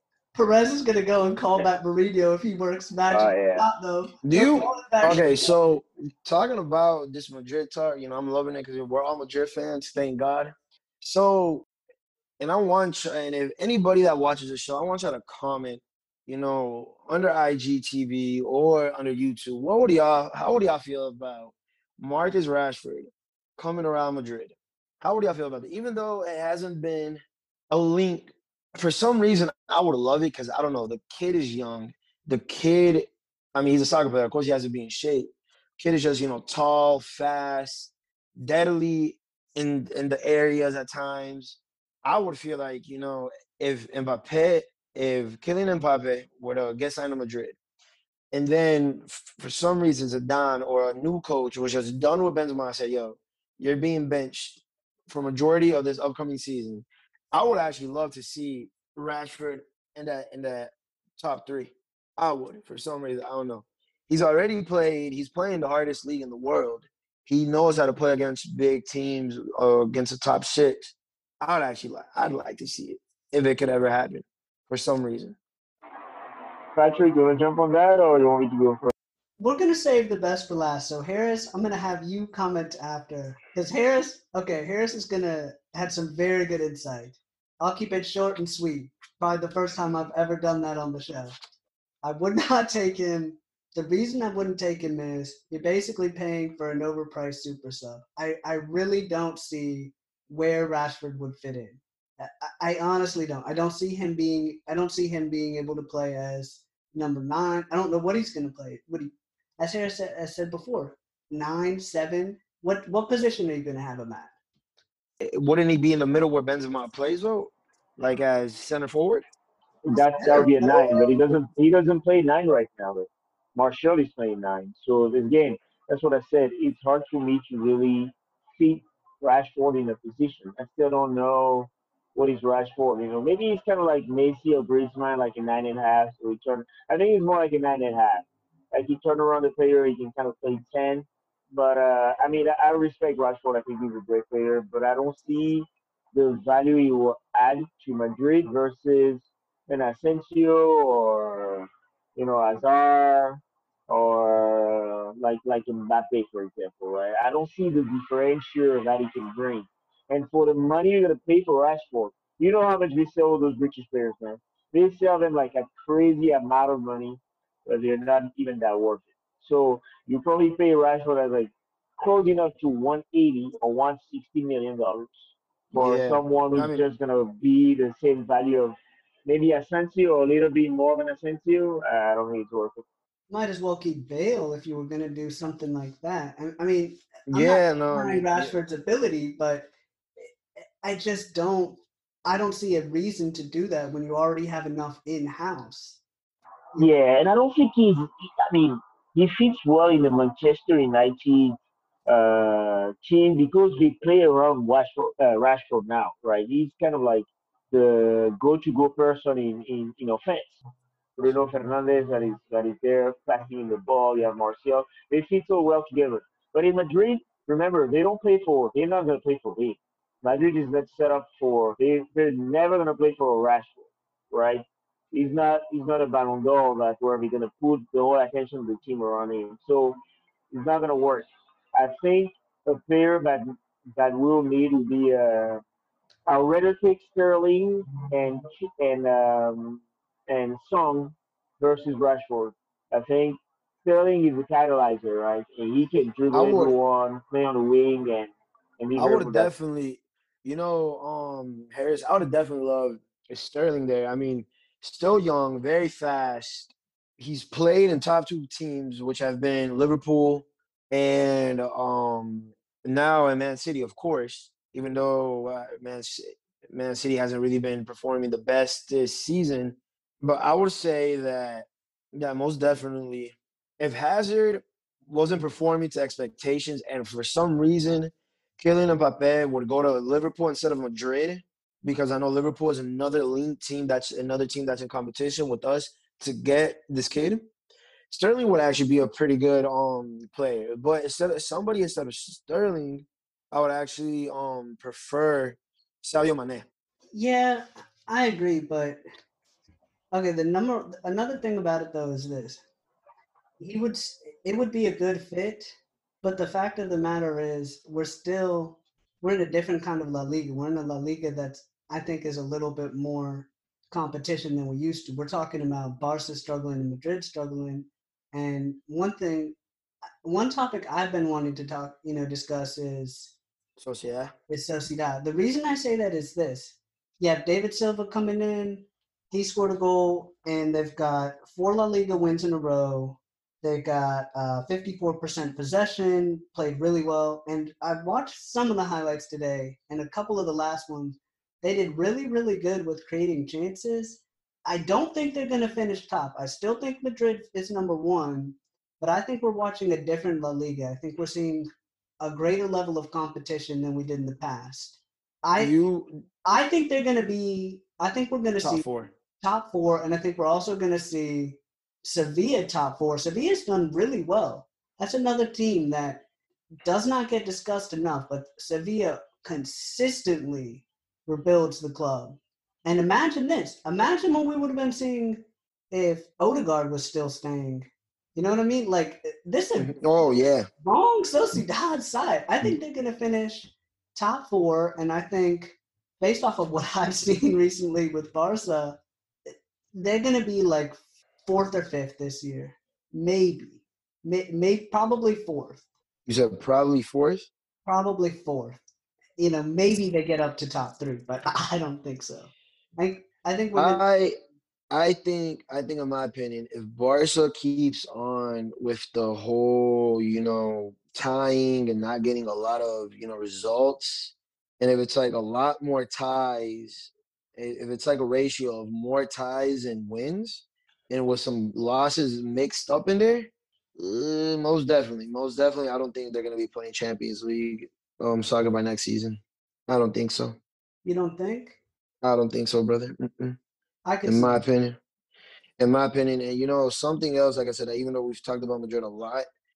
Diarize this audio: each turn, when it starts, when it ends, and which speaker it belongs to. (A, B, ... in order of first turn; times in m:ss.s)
0:00.3-0:05.4 A
0:03.1-0:03.7 B
0:04.2-0:11.7 C
0:12.4-0:47.6 C
0:48.3-1:15.4 C
1:16.8-1:18.9 B
1:19.4-1:31.4 A
1:32.0-1:54.3 A
1:55.2-1:59.2 C
1:59.8-3:02.8 B
2:00.0-2:01.1 A
2:55.7-2:56.8 C
3:03.3-3:16.0 A
3:07.3-3:08.5 C
3:16.8-3:21.6 B
3:22.1-3:30.6 B
3:31.2-3:50.0 B
3:50.5-3:55.6 B
3:56.3-4:09.5 B
4:06.3-4:06.7 C
4:09.0-4:47.4 C
4:48.1-4:56.7 C
4:57.1-4:59.0 A
5:00.1-5:02.6 A
5:03.6-5:19.6 A
5:20.2-5:23.4 A
5:23.8-5:24.3 C
5:24.5-5:51.7 A
5:52.2-5:55.8 A
5:55.6-5:56.2 C
5:56.4-5:58.9 A
5:58.6-5:59.1 C
5:59.4-6:06.2 A
6:06.8-6:15.4 A
6:15.9-6:20.1 A
6:19.8-6:20.7 C
6:20.8-6:35.8 A
6:36.3-6:37.5 C
6:37.9-6:38.8 A
6:39.4-6:44.0 A
6:43.8-6:44.4 C
6:44.9-7:10.6 C
7:11.0-7:11.8 A
7:12.2-7:13.6 C
7:14.0-7:14.6 A
7:14.3-7:15.0 C
7:15.8-7:19.5 C